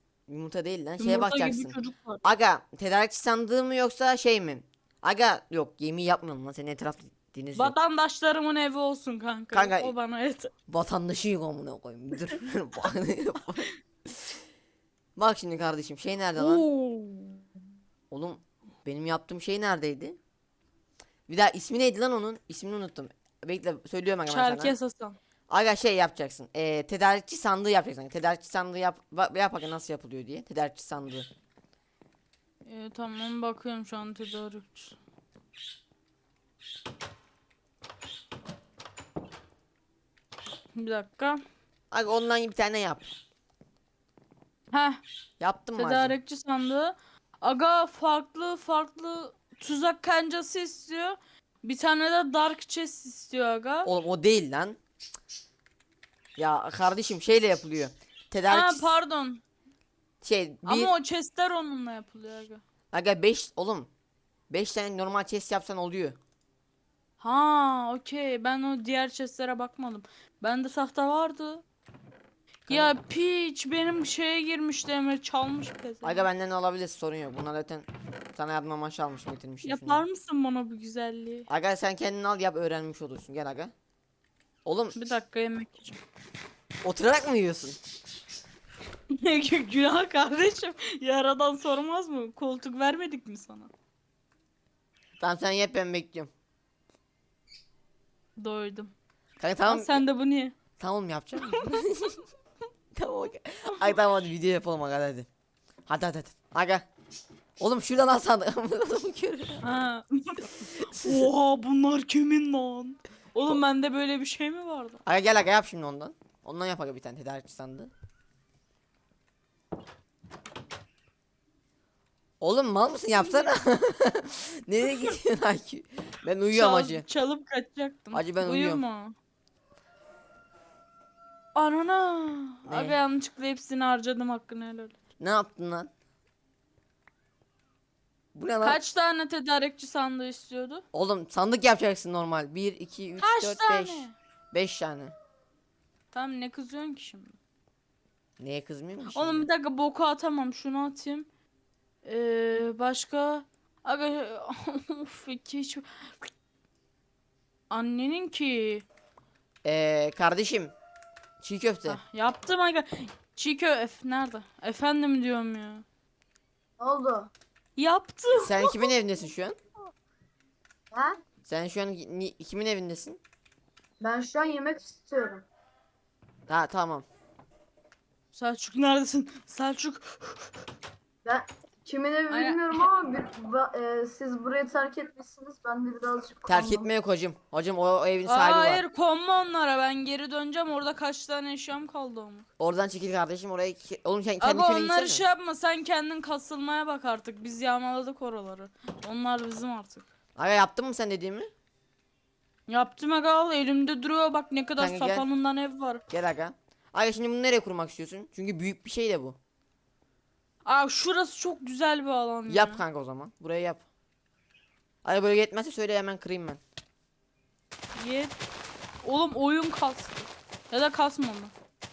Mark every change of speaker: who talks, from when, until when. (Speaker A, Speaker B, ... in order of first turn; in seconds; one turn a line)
Speaker A: 0.3-7.7
Speaker B: 1.0-2.2
Speaker B: 7.5-10.5
Speaker A: 9.5-9.9
Speaker A: 10.7-14.3
Speaker A: 15.2-16.6
Speaker B: 16.4-17.4
Speaker A: 18.1-20.2
Speaker A: 21.3-24.8
Speaker B: 24.3-25.2
Speaker A: 25.5-31.3
Speaker B: 32.6-35.0
Speaker B: 40.8-41.4
Speaker A: 41.9-43.1
Speaker B: 44.7-45.0
Speaker A: 45.4-46.2
Speaker B: 45.8-53.9
Speaker A: 53.9-54.8
Speaker A: 56.4-59.0
Speaker B: 58.5-59.4
Speaker A: 60.2-60.9
Speaker B: 60.6-62.6
Speaker A: 62.9-63.9
Speaker A: 64.5-66.2
Speaker B: 67.2-71.6
Speaker B: 72.7-76.3
Speaker A: 72.7-72.9
Speaker A: 76.0-80.0
Speaker B: 79.6-81.5
Speaker A: 81.5-83.7
Speaker A: 84.7-85.0
Speaker B: 85.0-86.0
Speaker A: 86.8-87.8
Speaker B: 89.1-93.7
Speaker A: 95.2-96.3
Speaker B: 98.4-98.9
Speaker A: 99.4-100.0
Speaker B: 99.7-100.5
Speaker A: 100.8-102.2
Speaker B: 101.4-101.8
Speaker A: 103.0-105.3
Speaker A: 105.9-106.9
Speaker A: 107.6-109.6
Speaker B: 109.6-115.0
Speaker A: 110.8-111.3
Speaker A: 115.0-117.9
Speaker A: 122.4-127.1
Speaker B: 123.2-123.5
Speaker B: 126.5-129.2
Speaker A: 128.1-128.8
Speaker B: 131.6-135.0
Speaker A: 132.7-133.0
Speaker A: 135.2-135.9
Speaker A: 138.3-138.8
Speaker B: 138.6-140.8
Speaker A: 140.9-145.2
Speaker B: 143.2-144.1
Speaker B: 146.1-147.4
Speaker A: 148.4-149.5
Speaker B: 149.1-151.3
Speaker B: 152.0-156.3
Speaker B: 157.7-158.9
Speaker A: 159.6-160.8
Speaker A: 161.4-162.0
Speaker B: 161.9-165.8
Speaker C: 166.8-167.3
Speaker B: 167.8-168.9
Speaker A: 168.4-169.6
Speaker C: 170.9-171.2
Speaker A: 171.5-173.2
Speaker C: 174.0-175.5
Speaker A: 176.5-177.1
Speaker B: 178.3-180.5
Speaker C: 181.2-186.9
Speaker B: 182.3-182.8
Speaker A: 186.5-188.8
Speaker B: 188.2-192.5
Speaker A: 192.6-195.2
Speaker B: 194.4-200.1
Speaker A: 200.4-201.5
Speaker B: 202.7-206.0
Speaker A: 204.8-205.3
Speaker A: 206.1-209.4
Speaker B: 210.7-212.8
Speaker A: 212.5-213.8
Speaker A: 215.0-216.6
Speaker B: 218.0-218.4
Speaker B: 219.0-221.5